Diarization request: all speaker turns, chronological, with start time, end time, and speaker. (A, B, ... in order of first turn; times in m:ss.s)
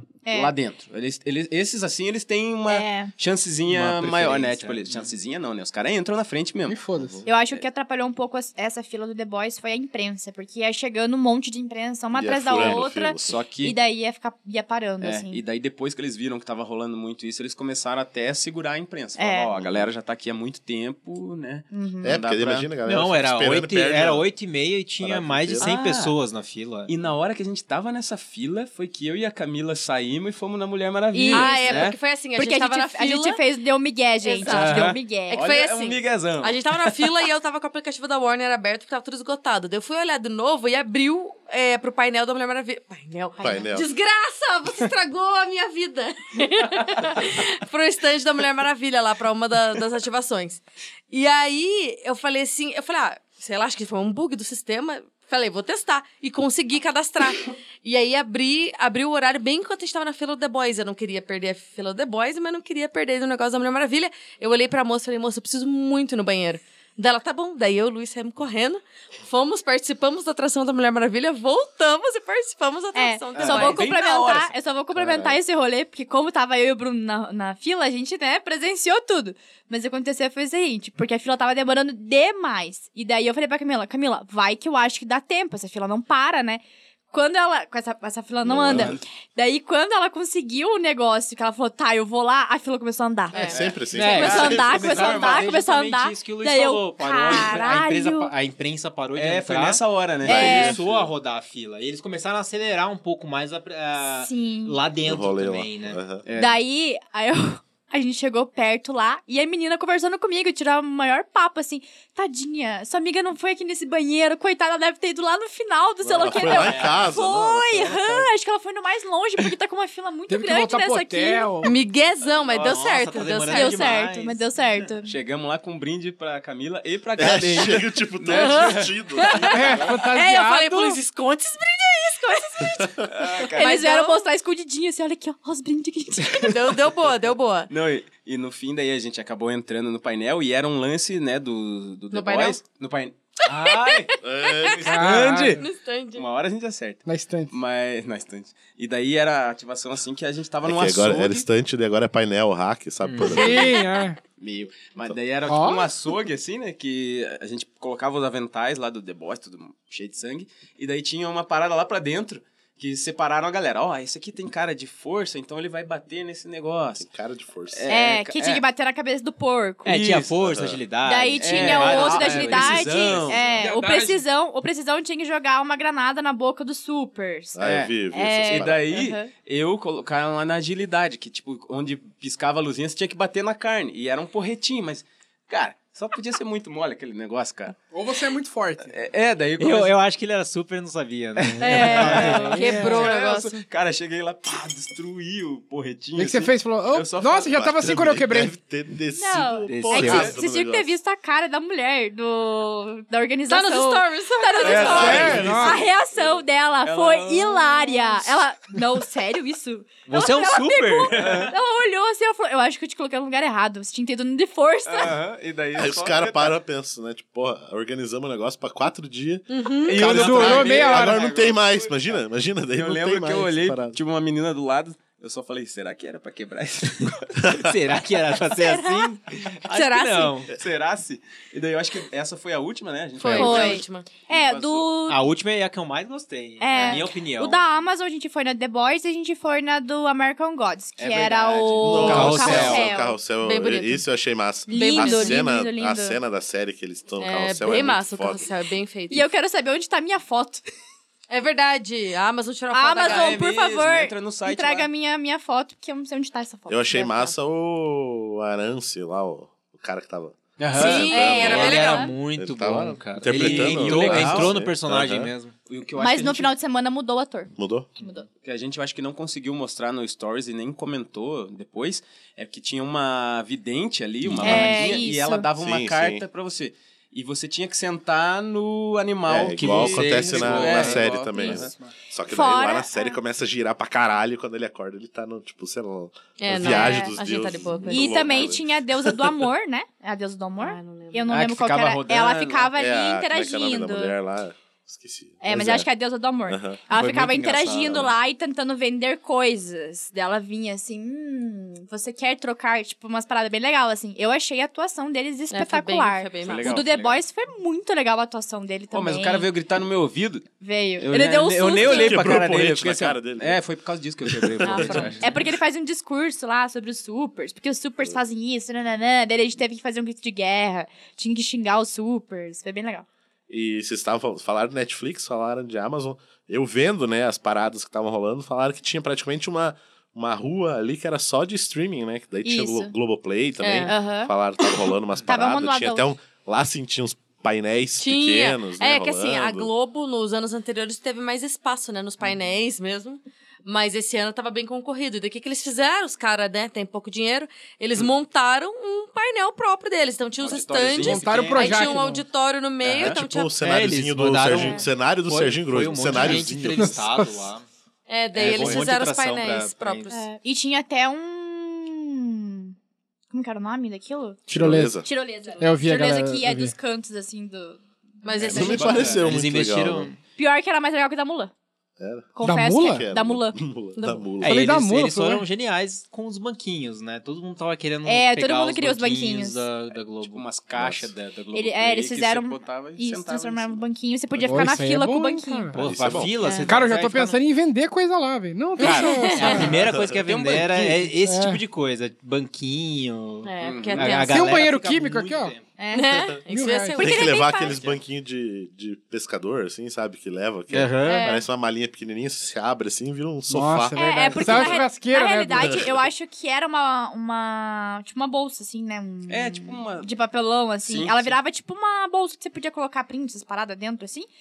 0:00.3-0:00.5 A
0:00.3-0:06.8 B
0:02.7-0:03.1 A
0:03.7-0:05.1 C
0:06.7-0:07.2 D
0:07.0-0:07.2 E
0:07.2-0:15.4 A
0:12.1-0:13.4 E
0:12.6-0:13.8 B
0:15.0-0:22.7 B
0:19.2-0:19.5 A
0:19.6-0:19.9 E
0:21.7-0:22.2 A
0:22.0-0:24.3 E
0:22.8-0:26.9 C
0:25.0-0:25.7 E
0:25.6-0:26.2 B
0:26.9-0:32.0 B
0:31.1-0:35.4 A
0:31.3-0:33.4 F
0:34.2-1:13.8 F
0:34.5-0:37.2 B
0:43.4-0:43.9 E
1:12.9-1:38.3 A
1:13.4-1:14.5 B
1:14.9-1:15.4 E
1:28.4-1:29.0 E
1:28.7-1:29.0 B
1:33.3-1:33.6 F
1:33.5-1:34.8 E
1:33.9-1:46.0 C
1:34.0-1:35.6 B
1:39.2-1:41.0 B
1:40.2-1:41.1 E
1:40.3-1:40.8 A
1:44.0-1:44.8 A
1:45.0-1:46.2 E
1:46.3-1:46.6 B
1:46.4-2:01.7 A
1:56.0-1:58.3 E
1:56.2-1:57.0 C
2:00.3-2:01.8 D
2:01.6-2:04.0 F
2:02.4-2:02.9 B
2:02.5-2:04.4 C
2:03.5-2:05.1 A
2:05.1-2:08.9 B
2:07.2-2:09.9 E
2:08.3-2:14.2 F
2:09.5-2:11.0 D
2:13.1-2:13.8 B
2:13.6-2:16.6 A
2:16.4-2:17.7 F
2:17.7-2:25.6 B
2:22.1-2:22.6 F
2:23.6-2:24.8 F
2:24.2-2:25.1 E
2:24.8-2:25.6 D
2:25.6-2:26.2 F
2:26.2-2:31.5 B
2:27.1-2:27.5 D
2:30.6-2:33.8 E
2:33.0-2:33.4 C
2:33.3-2:34.2 D
2:34.4-2:47.1 B
2:35.5-2:35.9 D
2:47.0-2:47.9 E
2:47.7-2:48.6 B
2:47.9-2:49.9 A
2:49.8-2:53.4 C
2:49.9-2:50.4 B
2:50.4-2:50.8 E
2:51.0-2:59.3 A
2:51.4-2:53.7 B
2:53.6-2:54.2 D
2:57.6-2:58.8 E
2:57.6-2:57.9 B
2:58.5-3:07.8 B
3:07.9-3:08.9 D
3:08.9-3:10.0 B
3:09.6-3:13.0 C
3:11.4-3:17.7 B
3:11.6-3:13.0 A
3:12.1-3:13.6 F
3:16.2-3:18.6 D
3:17.5-3:20.9 E
3:19.2-3:35.2 A
3:19.7-3:20.3 C
3:23.5-3:25.4 F
3:24.6-3:26.3 B
3:24.7-3:25.9 E
3:25.0-3:25.8 D
3:26.8-3:28.3 B
3:30.1-3:31.5 C
3:31.2-3:31.5 B
3:34.9-3:36.6 B
3:35.8-3:44.0 E
3:39.5-3:40.1 F
3:39.8-3:42.2 B
3:40.1-3:41.3 D
3:42.7-3:47.4 B
3:47.5-3:49.2 C
3:48.6-3:49.1 F
3:49.7-3:50.4 F
3:49.7-3:50.5 C
3:50.5-3:54.9 B
3:53.2-3:54.1 F
3:53.3-3:55.2 A
3:55.1-3:57.6 C
3:56.6-4:03.2 A
4:01.0-4:02.8 B
4:01.8-4:08.5 E
4:02.0-4:02.9 C
4:03.4-4:04.0 F
4:04.7-4:06.2 A
4:04.7-4:05.4 F
4:07.2-4:09.3 F
4:09.1-4:10.6 A
4:11.3-4:13.4 F
4:12.7-4:17.3 A
4:13.0-4:14.9 B
4:16.7-4:25.3 E
4:20.6-4:21.1 B
4:20.8-4:22.1 F
4:21.1-4:22.1 A
4:21.1-4:25.5 C
4:23.2-4:24.6 B
4:25.7-4:26.5 B
4:26.0-4:28.2 A
4:27.6-4:27.9 E
4:28.4-4:41.7 B
4:34.2-4:34.9 E
4:34.4-4:35.5 A
4:35.6-4:36.2 E
4:39.3-4:49.2 E
4:39.6-4:41.0 C
4:41.6-4:41.9 D
4:42.2-4:43.2 A
4:46.4-4:48.3 F
4:46.6-4:47.1 A
4:47.9-4:54.2 A
4:50.6-4:51.3 F
4:51.3-4:52.7 B
4:52.8-4:55.9 E
4:55.4-5:09.5 A
4:56.5-4:56.8 E
4:57.0-4:57.5 B
4:57.2-4:58.0 C
5:05.5-5:06.8 F
5:06.4-5:07.2 B
5:08.9-5:10.5 B
5:10.6-5:12.4 A
5:11.0-5:15.3 B
5:11.8-5:13.6 E
5:14.2-5:15.2 E
5:14.7-5:15.2 F
5:15.2-5:23.1 A
5:23.5-5:39.7 E
5:32.4-5:32.9 A
5:33.6-5:34.0 F
5:33.9-5:34.3 A
5:35.3-5:36.1 A
5:38.0-5:53.6 F
5:50.4-5:51.9 B
5:51.0-5:52.3 D
5:52.9-5:57.0 E
5:53.6-5:57.7 C
5:56.8-5:57.4 D
5:58.1-6:00.3 F
5:58.3-6:00.1 C
5:58.5-5:58.8 B
6:00.1-6:02.7 A
6:03.3-6:04.5 A
6:04.5-6:05.0 D
6:04.5-6:05.1 E
6:05.0-6:08.9 A
6:05.6-6:06.7 D
6:08.2-6:09.2 F
6:08.4-6:10.1 E
6:08.5-6:10.2 C
6:10.4-6:11.5 A
6:12.0-6:14.6 E
6:12.4-6:13.6 A
6:12.4-6:13.1 D
6:14.0-6:14.4 F
6:14.4-6:21.0 C
6:14.4-6:15.4 D
6:18.0-6:19.6 A
6:20.0-6:23.8 B
6:21.5-6:25.7 A
6:24.4-6:25.8 D
6:25.7-6:27.4 C
6:25.8-6:26.6 E
6:26.4-6:26.8 A
6:26.7-6:29.8 D
6:28.8-6:35.7 C
6:28.8-6:29.7 F
6:29.7-6:30.2 E
6:30.1-6:31.1 B
6:31.2-6:31.6 D
6:33.4-6:34.6 F
6:33.6-6:34.3 B
6:34.3-6:35.6 D
6:35.8-6:36.3 A
6:35.9-6:37.9 F
6:36.5-6:37.0 D
6:37.0-6:37.8 A
6:37.0-6:44.8 E
6:40.7-6:41.3 C
6:41.1-6:41.4 A
6:43.5-6:45.8 D
6:44.0-6:54.3 A
6:45.6-6:46.0 E
6:49.3-6:50.1 B
6:50.8-6:51.4 B